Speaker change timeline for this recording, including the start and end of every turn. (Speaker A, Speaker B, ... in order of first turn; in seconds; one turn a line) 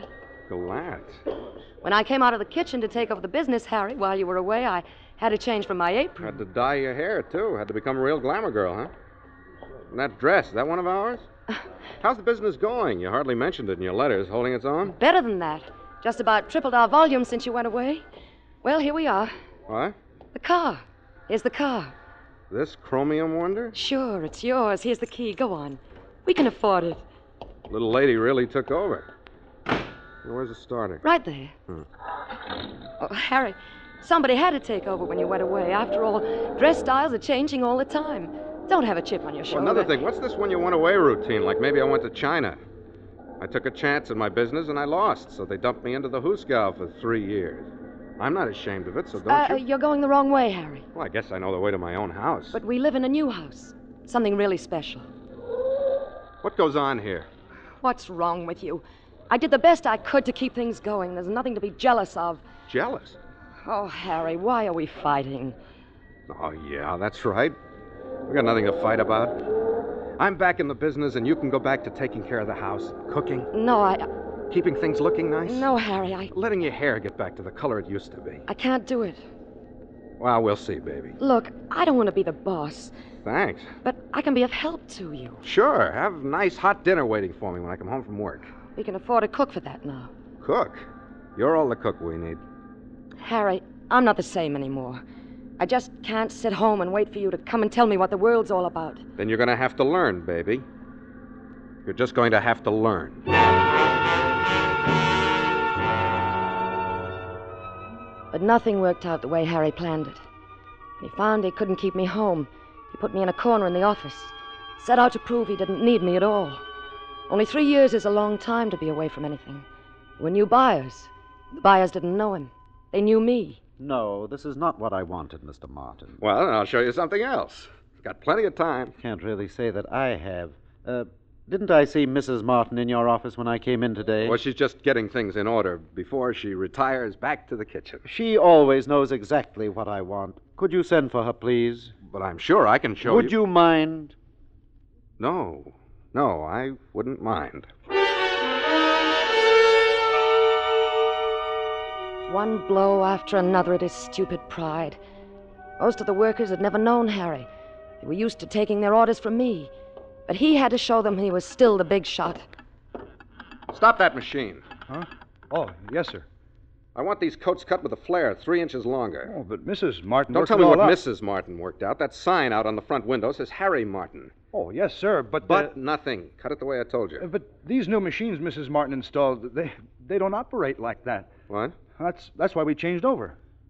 Speaker A: 0.5-1.2
Speaker B: 1.8-6.4
Speaker A: 6.2-8.9
Speaker A: 9.9-11.2
Speaker A: 12.0-14.9
Speaker B: 15.0-18.0
Speaker B: 18.6-19.3
Speaker A: 19.7-19.9
Speaker B: 20.3-21.9
Speaker A: 22.5-23.7
Speaker B: 23.7-27.0
Speaker A: 27.7-29.1
Speaker A: 30.2-31.0
Speaker B: 31.0-31.5
Speaker B: 33.0-39.9
Speaker A: 39.5-42.6
Speaker A: 43.4-49.6
Speaker B: 49.3-50.9
Speaker A: 50.9-52.6
Speaker B: 52.5-55.1
Speaker A: 56.4-57.3
Speaker B: 57.8-62.4
Speaker A: 62.7-63.2
Speaker B: 63.6-65.5
Speaker A: 66.3-67.6
Speaker A: 68.3-69.4
Speaker A: 70.2-73.5
Speaker B: 73.5-74.1
Speaker A: 74.5-75.7
Speaker B: 75.5-76.3
Speaker A: 76.3-78.4
Speaker B: 78.5-79.2
Speaker A: 80.2-81.2
Speaker B: 81.2-82.9
Speaker A: 83.2-83.7
Speaker B: 83.8-85.4
Speaker A: 85.4-88.5
Speaker B: 88.7-90.1
Speaker A: 90.4-90.8
Speaker A: 91.3-92.4
Speaker B: 93.2-95.0
Speaker B: 95.6-99.0
Speaker A: 99.2-100.6
Speaker A: 101.8-103.2
Speaker B: 108.3-110.2
Speaker B: 111.0-116.6
Speaker B: 117.3-119.7
Speaker B: 120.2-123.6
Speaker C: 123.8-126.2
Speaker A: 126.2-128.9
Speaker C: 129.0-134.4
Speaker A: 134.2-138.0
Speaker C: 138.0-141.9
Speaker A: 142.1-143.3
Speaker C: 143.0-144.1
Speaker A: 145.2-147.7
Speaker B: 152.3-155.0
Speaker B: 155.8-157.5
Speaker B: 158.0-159.7
Speaker B: 160.3-162.4
Speaker A: 163.7-164.7
Speaker D: 164.9-166.2
Speaker A: 166.9-169.3
Speaker D: 169.2-171.0
Speaker A: 170.3-174.3
Speaker D: 174.5-175.7
Speaker A: 175.4-177.2
Speaker D: 177.2-181.3
Speaker A: 181.5-181.8
Speaker D: 181.9-183.4